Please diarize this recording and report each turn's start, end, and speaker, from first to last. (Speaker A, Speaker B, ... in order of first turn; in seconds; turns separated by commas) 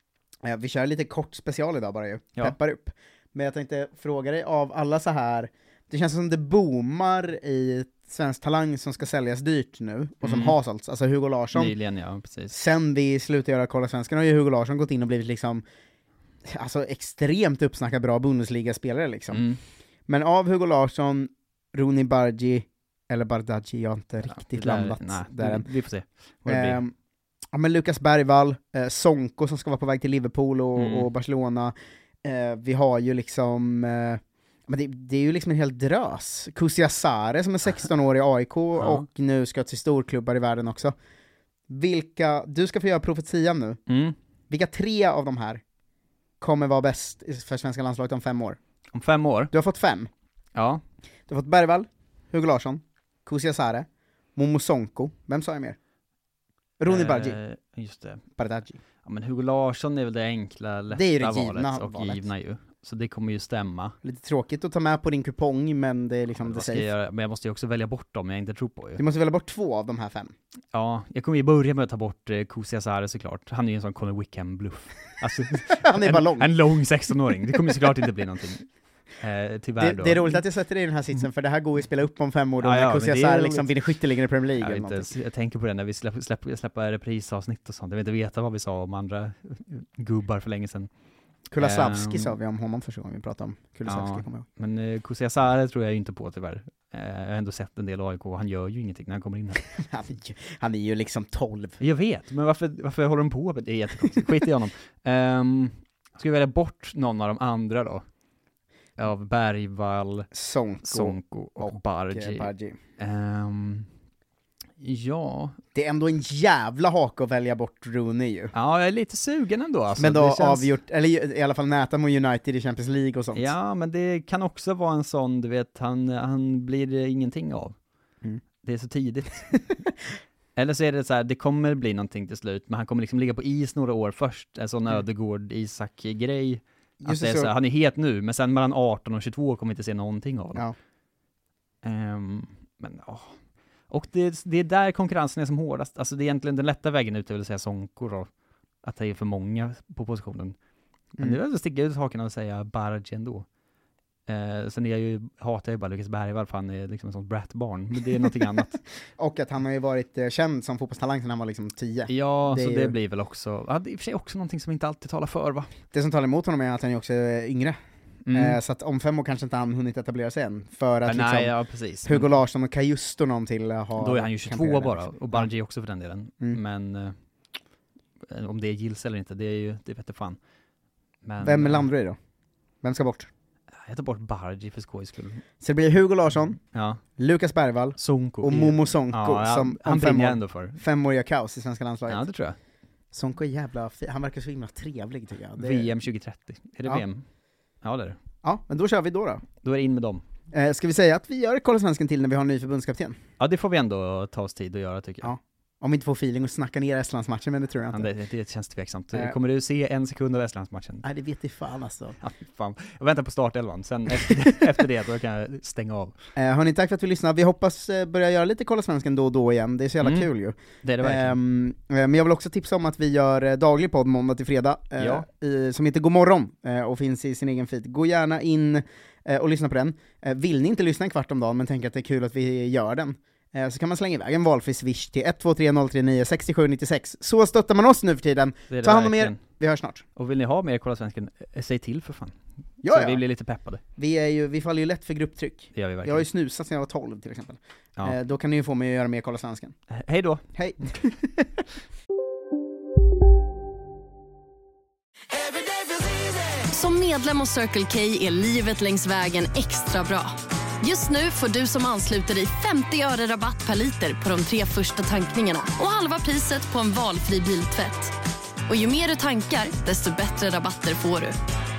Speaker A: 0.4-11.8, Speaker B: 10.2-10.6, Speaker B: 11.5-12.6, Speaker A: 12.5-15.6, Speaker A: 16.4-19.4, Speaker B: 19.3-19.6, Speaker A: 20.1-25.7, Speaker B: 24.3-26.8, Speaker A: 26.4-26.9, Speaker A: 27.5-40.9, Speaker B: 30.8-31.1, Speaker B: 38.8-39.0, Speaker A: 41.7-43.8, Speaker B: 43.9-44.1, Speaker A: 44.5-45.6, Speaker A: 46.4-48.6, Speaker B: 48.9-49.5, Speaker A: 49.5-50.1, Speaker B: 50.5-50.8, Speaker A: 51.3-55.8, Speaker A: 56.8-57.4, Speaker B: 56.9-58.2, Speaker A: 58.4-58.8, Speaker B: 59.0-63.9, Speaker A: 60.9-62.2, Speaker A: 64.0-66.9, Speaker B: 66.4-69.0, Speaker A: 69.0-70.3, Speaker B: 70.7-78.7, Speaker A: 75.7-76.6, Speaker B: 79.2-80.4, Speaker A: 79.8-85.1, Speaker B: 82.6-83.9, Speaker B: 84.6-90.9, Speaker A: 91.5-94.5, Speaker B: 91.6-92.3, Speaker B: 93.8-99.6, Speaker A: 99.7-101.8, Speaker B: 101.8-108.0, Speaker B: 109.0-110.3, Speaker A: 110.3-112.8, Speaker B: 110.8-113.9, Speaker B: 114.8-115.6, Speaker A: 115.7-118.5, Speaker B: 118.5-120.7, Speaker A: 120.0-123.5, Speaker B: 123.3-127.8, Speaker B: 128.6-129.6, Speaker B: 130.6-140.6, Speaker A: 137.0-137.5, Speaker B: 141.8-148.3, Speaker B: 148.8-150.6, Speaker B: 151.2-153.4, Speaker B: 154.3-158.8, Speaker A: 159.2-162.9, Speaker B: 162.1-165.7, Speaker A: 165.9-167.8, Speaker B: 168.2-168.6, Speaker A: 168.3-175.5, Speaker B: 171.1-172.3, Speaker B: 174.0-177.1, Speaker B: 178.2-180.4, Speaker B: 181.2-181.9, Speaker A: 181.4-182.2, Speaker A: 182.8-183.3, Speaker B: 183.8-185.4, Speaker A: 185.6-186.6, Speaker B: 186.7-187.0, Speaker A: 187.2-192.2, Speaker B: 188.0-190.8, Speaker B: 192.1-192.6, Speaker A: 193.1-195.9, Speaker B: 195.6-197.2, Speaker B: 197.8-198.2, Speaker A: 198.4-199.4, Speaker B: 199.6-200.2, Speaker A: 200.5-203.2, Speaker B: 203.4-205.3, Speaker A: 205.2-208.1, Speaker B: 207.9-211.0, Speaker A: 211.0-212.2, Speaker B: 212.2-216.1, Speaker A: 216.3-240.0, Speaker B: 220.0-220.3, Speaker B: 220.8-221.3, Speaker B: 225.0-225.2, Speaker B: 238.7-239.4, Speaker B: 240.2-243.8, Speaker A: 242.8-243.2, Speaker A: 244.0-249.7, Speaker B: 245.7-246.3, Speaker B: 249.9-250.4, Speaker A: 250.5-251.5, Speaker C: 256.7-268.1, Speaker C: 268.7-271.4